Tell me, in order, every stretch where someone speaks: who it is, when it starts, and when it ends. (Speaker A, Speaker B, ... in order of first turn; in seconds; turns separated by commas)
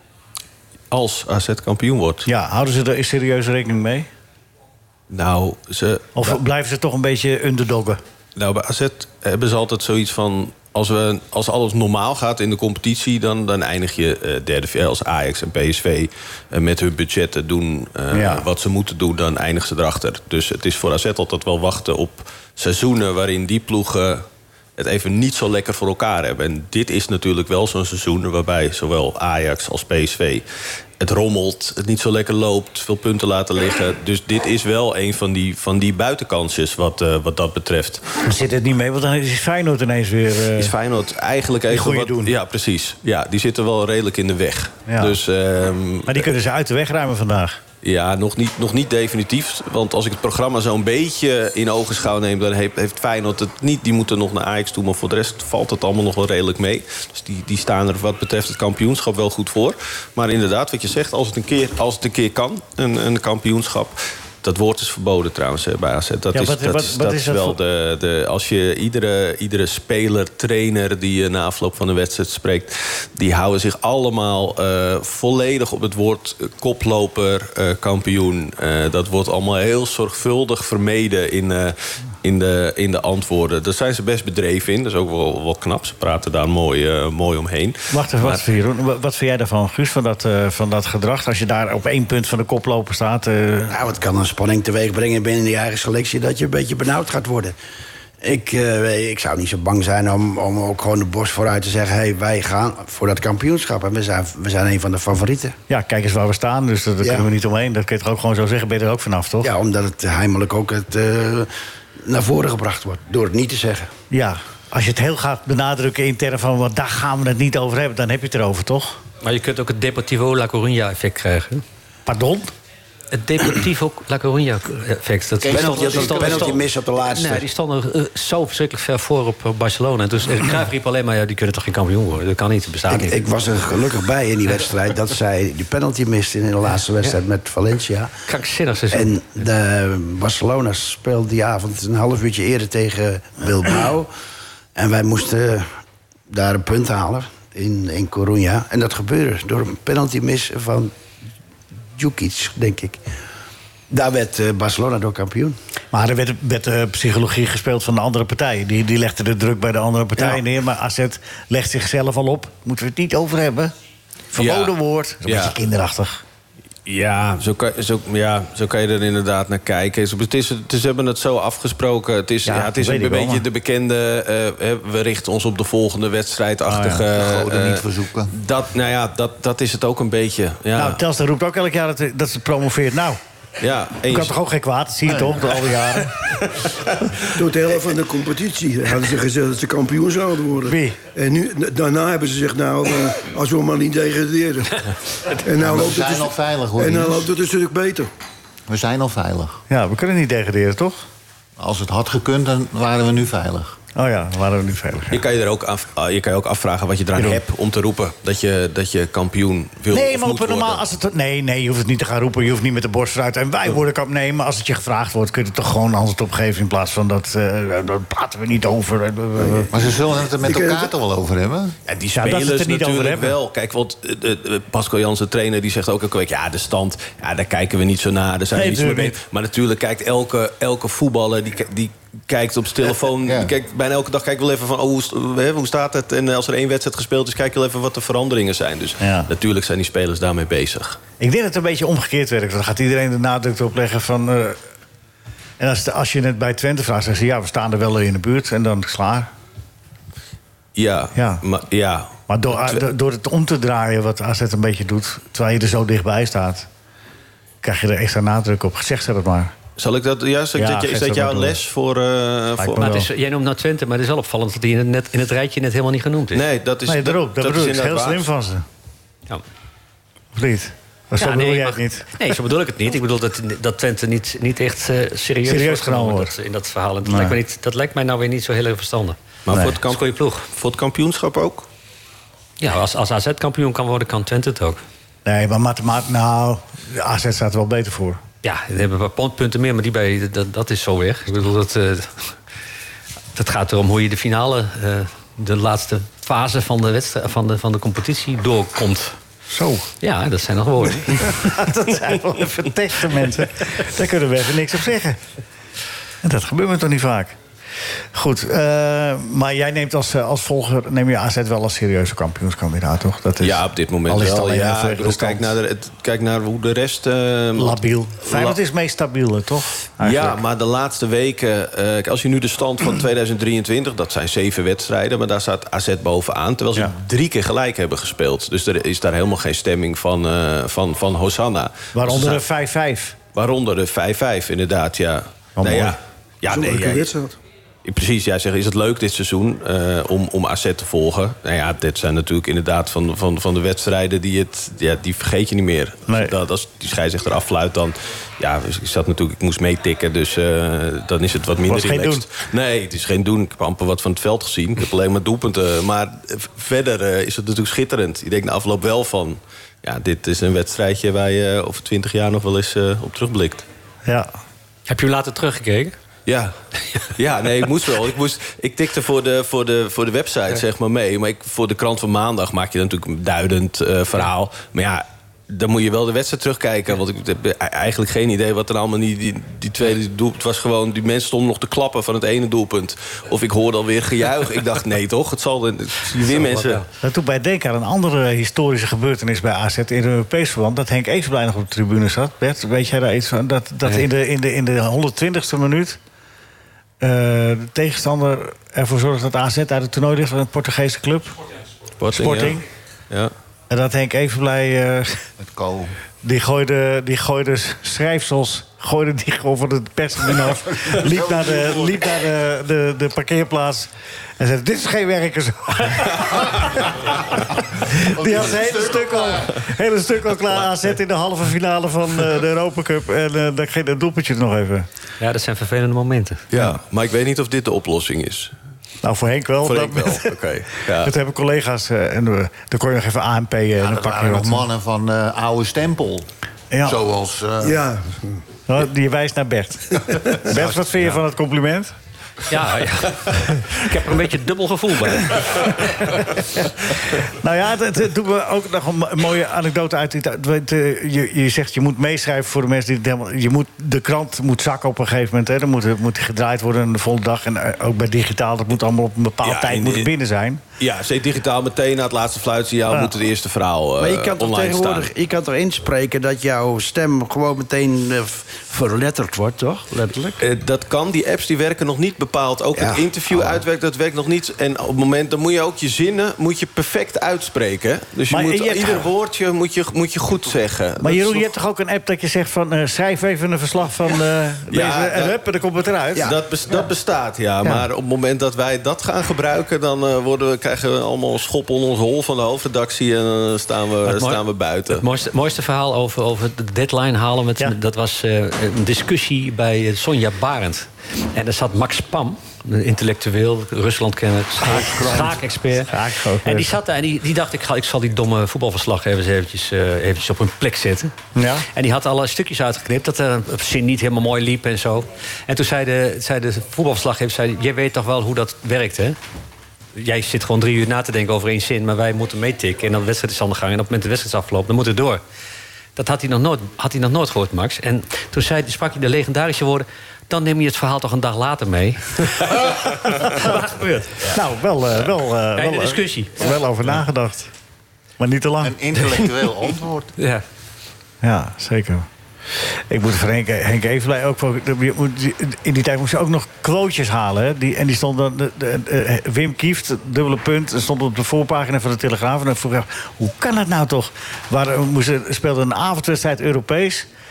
Speaker A: 0.9-2.3, Speaker B: 2.3-4.1, Speaker A: 5.1-6.4, Speaker B: 6.2-8.0, Speaker A: 8.4-24.2, Speaker B: 18.1-18.4, Speaker A: 24.8-30.4, Speaker A: 31.0-38.1, Speaker B: 38.2-40.7, Speaker A: 40.6-46.3, Speaker B: 41.7-42.3, Speaker B: 44.9-45.2, Speaker B: 46.1-47.6, Speaker A: 47.8-88.4, Speaker B: 66.3-67.6, Speaker B: 87.9-93.8, Speaker C: 93.7-97.6, Speaker C: 98.2-105.6, Speaker B: 105.7-109.5, Speaker C: 107.0-107.3, Speaker C: 109.4-111.5, Speaker C: 112.0-113.9, Speaker B: 114.1-119.0, Speaker D: 119.2-121.6, Speaker B: 122.1-122.5, Speaker D: 123.1-133.2, Speaker E: 125.4-126.7, Speaker C: 125.5-127.5, Speaker C: 132.9-138.1, Speaker D: 138.3-139.1, Speaker C: 138.9-144.1, Speaker C: 144.8-145.7, Speaker C: 146.3-150.9, Speaker C: 152.0-153.0, Speaker C: 153.9-155.6, Speaker B: 155.9-163.7, Speaker B: 164.3-166.2, Speaker A: 164.4-165.6, Speaker A: 166.9-181.0, Speaker B: 172.5-173.4, Speaker B: 176.7-177.0, Speaker E: 177.1-178.3, Speaker B: 180.8-183.2, Speaker A: 183.6-184.4, Speaker B: 184.1-186.3, Speaker F: 187.3-194.8, Speaker B: 190.6-191.0, Speaker F: 195.4-198.1, Speaker E: 195.6-197.3, Speaker E: 198.7-199.6, Speaker B: 199.7-201.0, Speaker E: 201.6-203.8, Speaker B: 204.0-205.2, Speaker A: 205.1-210.8, Speaker B: 209.9-219.7, Speaker E: 219.7-221.8, Speaker F: 220.4-220.9, Speaker A: 221.9-241.0, Speaker B: 222.1-223.3, Speaker B: 228.5-229.2, Speaker E: 233.2-233.6, Speaker B: 239.0-239.3, Speaker B: 241.2-244.6, Speaker B: 245.6-249.3, Speaker A: 250.8-252.8, Speaker B: 251.2-251.4, Speaker B: 252.3-256.7, Speaker B: 257.6-259.5, Speaker A: 259.8-263.0, Speaker B: 260.6-261.6, Speaker B: 262.6-263.1, Speaker D: 262.8-266.4, Speaker A: 266.3-268.3, Speaker B: 266.9-268.6, Speaker B: 270.4-272.2, Speaker D: 271.1-279.2, Speaker B: 275.5-276.3, Speaker B: 277.1-277.4, Speaker A: 279.5-281.7, Speaker D: 279.8-280.5, Speaker D: 282.6-284.8, Speaker B: 285.3-288.2, Speaker D: 288.4-292.3, Speaker D: 293.4-299.2, Speaker B: 299.5-299.9, Speaker D: 300.0-301.5, Speaker B: 301.3-305.2, Speaker B: 306.2-307.4, Speaker B: 308.1-315.6, Speaker A: 313.4-318.6, Speaker B: 317.6-320.4, Speaker A: 320.0-332.4, Speaker B: 331.9-333.2, Speaker A: 333.3-337.1, Speaker B: 335.6-336.0, Speaker F: 336.5-337.4, Speaker A: 337.9-363.6, Speaker B: 346.1-346.3, Speaker B: 351.7-352.2, Speaker D: 364.9-366.0, Speaker A: 366.3-366.6, Speaker A: 367.1-386.8, Speaker D: 386.1-386.9, Speaker B: 387.0-396.0, Speaker B: 397.0-401.4, Speaker A: 402.0-402.6, Speaker B: 402.1-402.6, Speaker B: 403.7-405.2, Speaker E: 405.4-405.9, Speaker B: 406.2-424.9, Speaker E: 411.0-412.1, Speaker E: 418.0-419.6, Speaker D: 425.2-426.4, Speaker A: 426.5-428.5, Speaker B: 429.0-430.3, Speaker A: 429.6-431.1, Speaker B: 431.0-434.7, Speaker E: 433.8-436.3, Speaker B: 436.7-437.0, Speaker E: 436.8-437.8, Speaker F: 437.7-438.2, Speaker B: 438.7-441.9, Speaker D: 442.5-445.9, Speaker B: 447.1-460.6, Speaker A: 459.4-460.1, Speaker A: 460.8-465.1, Speaker C: 464.0-470.4, Speaker A: 470.4-481.5, Speaker C: 472.8-473.6, Speaker B: 478.3-479.1, Speaker B: 481.0-486.3, Speaker A: 484.7-485.4, Speaker A: 486.1-495.1, Speaker D: 494.1-511.1, Speaker E: 504.7-505.0, Speaker B: 505.9-506.7, Speaker B: 511.4-511.7, Speaker D: 511.7-519.2, Speaker D: 520.0-525.2, Speaker D: 526.0-534.4, Speaker B: 534.3-537.5, Speaker D: 535.5-536.5, Speaker B: 538.2-538.7, Speaker E: 538.6-540.1, Speaker D: 539.0-539.3, Speaker D: 540.2-540.4, Speaker B: 541.2-542.1, Speaker B: 542.6-557.1